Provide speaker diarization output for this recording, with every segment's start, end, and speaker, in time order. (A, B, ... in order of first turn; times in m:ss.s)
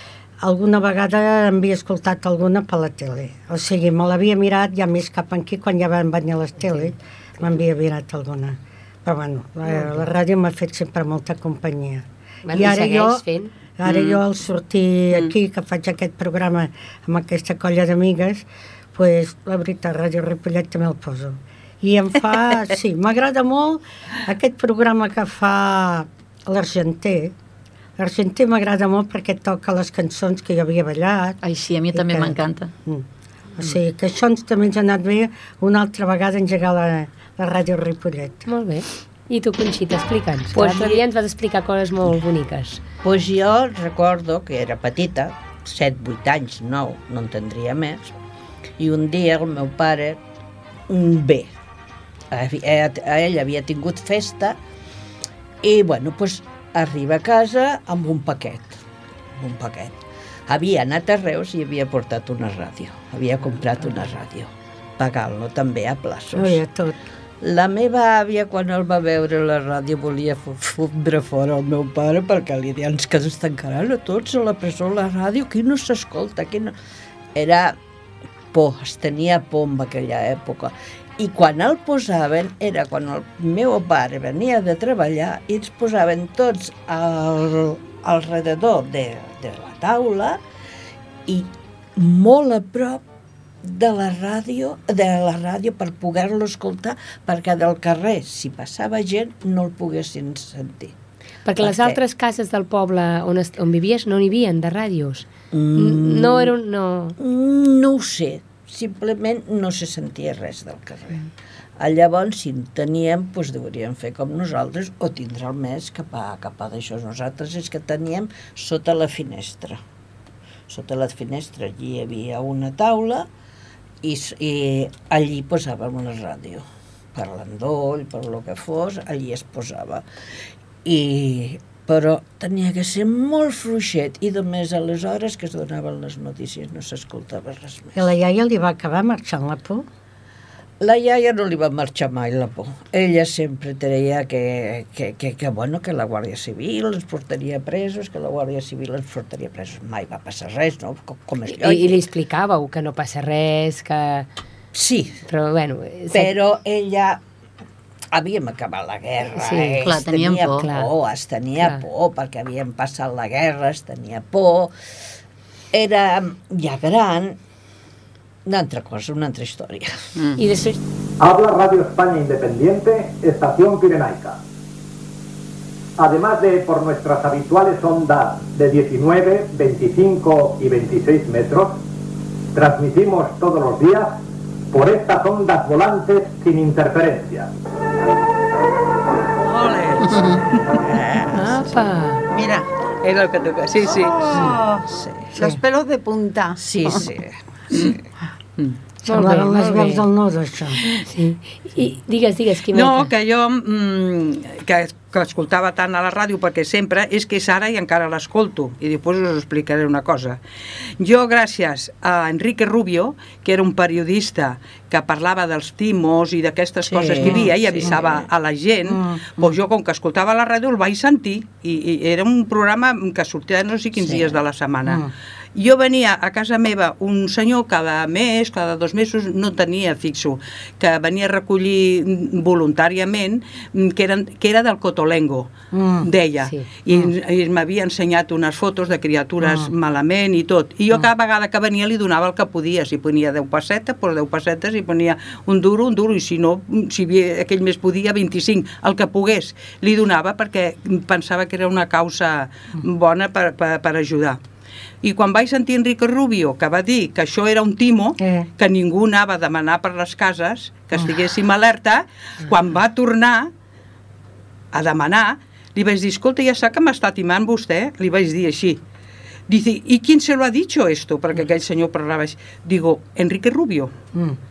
0:00.4-0:13.2 A
0:12.4-0:13.5 B
0:13.8-0:27.3 A
0:13.8-0:14.2 C
0:28.0-0:31.4 A
0:31.4-0:32.7 D
0:31.9-0:33.0 A
0:33.6-0:38.4 A
0:38.5-0:42.8 B
0:43.0-0:48.1 E
0:48.8-0:50.2 E
0:50.9-0:51.5 E
0:52.3-0:54.6 E
0:55.6-0:58.8 E
0:59.4-1:00.0 E
1:00.5-1:06.6 E
1:06.3-1:07.0 A
1:07.4-1:16.7 E
1:17.3-1:17.8 E
1:18.5-1:30.4 E
1:31.3-1:33.0 E
1:33.6-1:40.9 E
1:41.4-1:47.2 B
1:41.6-1:42.0 E
1:45.5-1:46.5 E
1:47.2-1:51.3 E
1:51.8-1:59.8 E
2:00.7-2:03.3 E
2:04.0-2:10.0 E
2:10.8-2:18.1 E
2:17.9-2:19.8 A
2:20.8-2:32.0 E
2:31.5-2:34.3 B
2:34.7-2:35.2 E
2:35.3-2:36.3 B
2:36.1-2:37.2 E
2:38.1-2:44.7 E
2:39.3-2:39.8 B
2:39.8-2:40.7 D
2:40.6-2:40.9 B
2:45.7-2:47.4 E
2:48.4-2:49.9 E
2:50.4-2:50.8 B
2:51.2-2:54.3 F
2:56.0-3:01.7 F
3:02.6-3:04.1 F
3:04.7-3:07.4 F
3:09.4-3:10.7 C
3:10.8-3:11.5 E
3:11.3-3:12.2 B
3:12.3-3:12.7 G
3:13.0-3:14.2 C
3:13.8-3:17.1 G
3:14.9-3:15.3 E
3:16.6-3:17.4 E
3:19.0-3:20.8 A
3:19.1-3:20.0 B
3:21.0-3:23.1 B
3:22.7-3:30.4 C
3:31.0-4:14.4 C
3:36.9-3:37.9 E
3:38.9-3:39.2 A
3:55.7-3:56.1 A
3:59.4-3:59.7 A
4:15.0-4:23.5 C
4:18.2-4:18.5 A
4:24.7-4:28.8 C
4:29.5-4:33.9 C